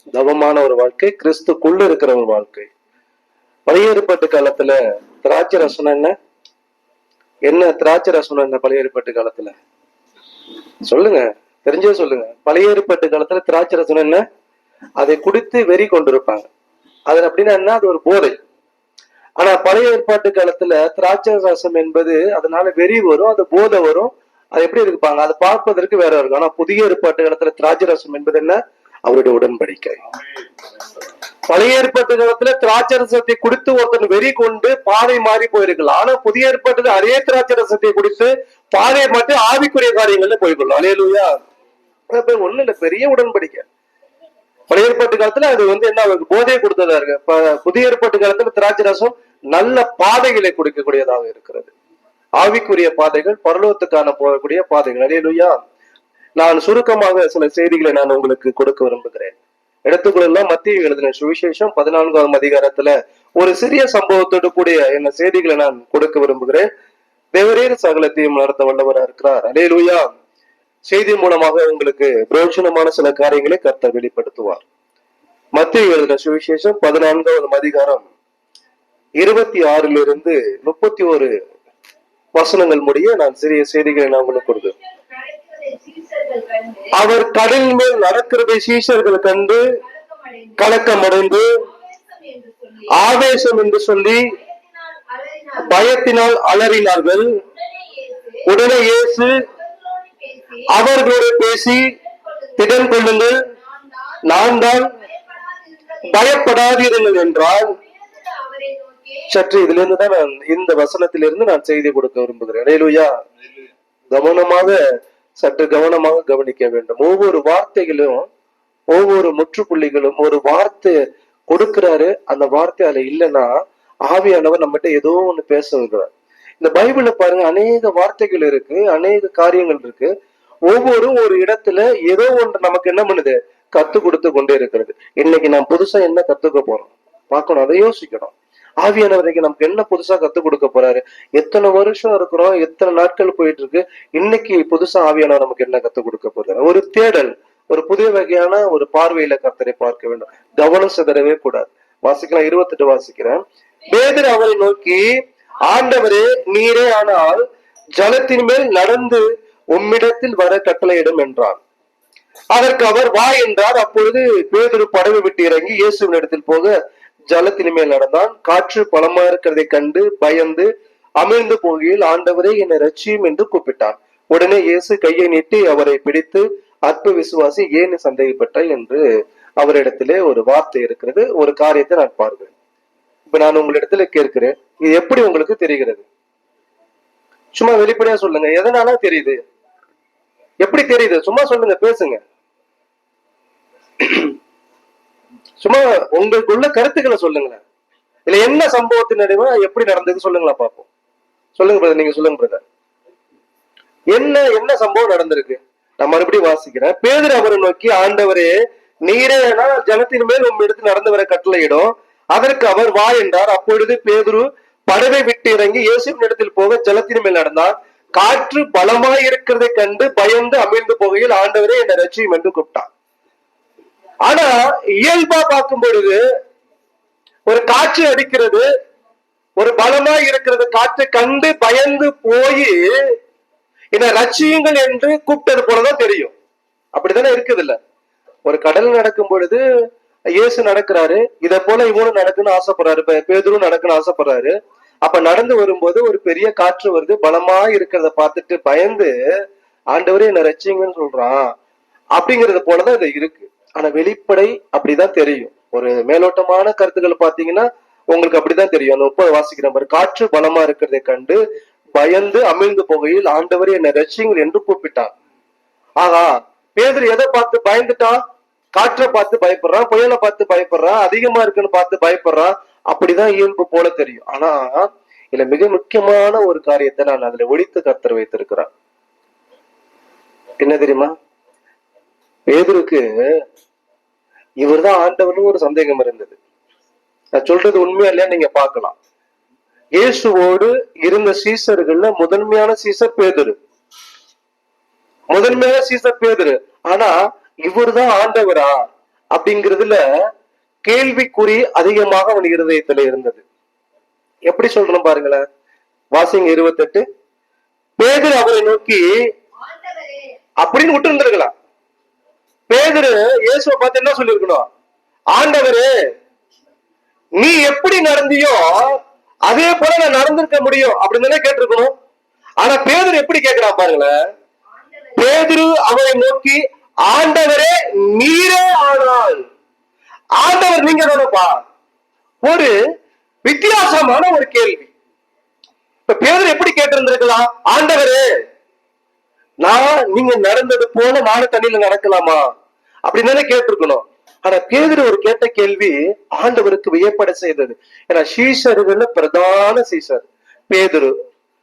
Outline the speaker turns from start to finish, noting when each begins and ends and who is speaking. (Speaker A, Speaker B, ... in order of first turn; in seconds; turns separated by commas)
Speaker A: 0.1-2.7, Speaker A: 3.7-6.2, Speaker A: 7.5-9.6, Speaker A: 10.9-14.2, Speaker A: 15.0-16.5, Speaker A: 17.1-18.4, Speaker A: 19.4-30.0, Speaker A: 31.5-41.4, Speaker A: 42.1-43.6, Speaker A: 44.7-51.7, Speaker A: 52.4-55.6, Speaker A: 56.4-59.4, Speaker A: 59.9-66.7, Speaker A: 67.3-70.1, Speaker A: 70.9-74.7, Speaker A: 75.6-78.1, Speaker A: 79.2-81.3, Speaker A: 82.4-84.7, Speaker B: 84.1-86.9, Speaker A: 87.0-89.6, Speaker B: 89.8-93.2, Speaker A: 90.6-91.5, Speaker A: 93.0-94.3, Speaker B: 94.0-95.9, Speaker A: 95.6-97.3, Speaker B: 97.4-98.5, Speaker A: 98.5-99.5, Speaker B: 99.3-100.7, Speaker A: 100.7-101.9, Speaker B: 101.8-103.0, Speaker A: 102.6-103.4, Speaker B: 103.5-106.6, Speaker A: 104.2-104.9, Speaker A: 106.1-107.8, Speaker B: 107.7-109.3, Speaker A: 109.3-113.1, Speaker A: 114.1-114.8, Speaker A: 115.4-118.3, Speaker A: 118.9-121.0, Speaker A: 121.5-123.5, Speaker A: 124.1-126.1, Speaker A: 126.6-130.1, Speaker A: 130.7-157.4, Speaker B: 153.8-154.6, Speaker A: 158.0-161.6, Speaker A: 162.5-166.7, Speaker A: 167.3-170.7, Speaker A: 171.2-179.0, Speaker A: 179.6-182.5, Speaker A: 183.3-186.1, Speaker A: 187.6-189.4, Speaker A: 190.6-192.2, Speaker A: 194.0-194.3, Speaker A: 195.6-197.6, Speaker A: 198.3-200.9, Speaker A: 201.6-202.6, Speaker A: 204.1-208.5, Speaker A: 209.1-222.9, Speaker A: 224.3-226.2, Speaker A: 227.5-228.7, Speaker A: 229.6-233.0, Speaker A: 233.9-236.3, Speaker A: 236.9-237.8, Speaker A: 238.5-239.6, Speaker A: 240.4-244.5, Speaker A: 245.0-249.1, Speaker A: 249.9-251.5, Speaker A: 252.2-261.4, Speaker A: 262.0-265.1, Speaker A: 266.0-268.2, Speaker A: 268.8-278.7, Speaker A: 280.6-281.1, Speaker A: 282.5-283.1, Speaker A: 284.6-286.4, Speaker A: 287.4-289.0, Speaker A: 290.0-293.6, Speaker A: 295.3-298.8, Speaker A: 299.4-300.0, Speaker A: 300.9-303.4, Speaker A: 304.5-305.4, Speaker A: 306.1-307.0, Speaker A: 308.0-309.1, Speaker B: 309.6-310.3, Speaker A: 310.6-311.5, Speaker A: 312.7-314.7, Speaker A: 315.3-315.9, Speaker A: 317.4-321.9, Speaker A: 322.6-324.1, Speaker B: 324.7-325.5, Speaker A: 325.2-329.4, Speaker A: 330.4-331.6, Speaker A: 332.4-332.7, Speaker A: 333.4-334.9, Speaker A: 336.1-338.2, Speaker A: 339.6-342.5, Speaker A: 343.1-351.1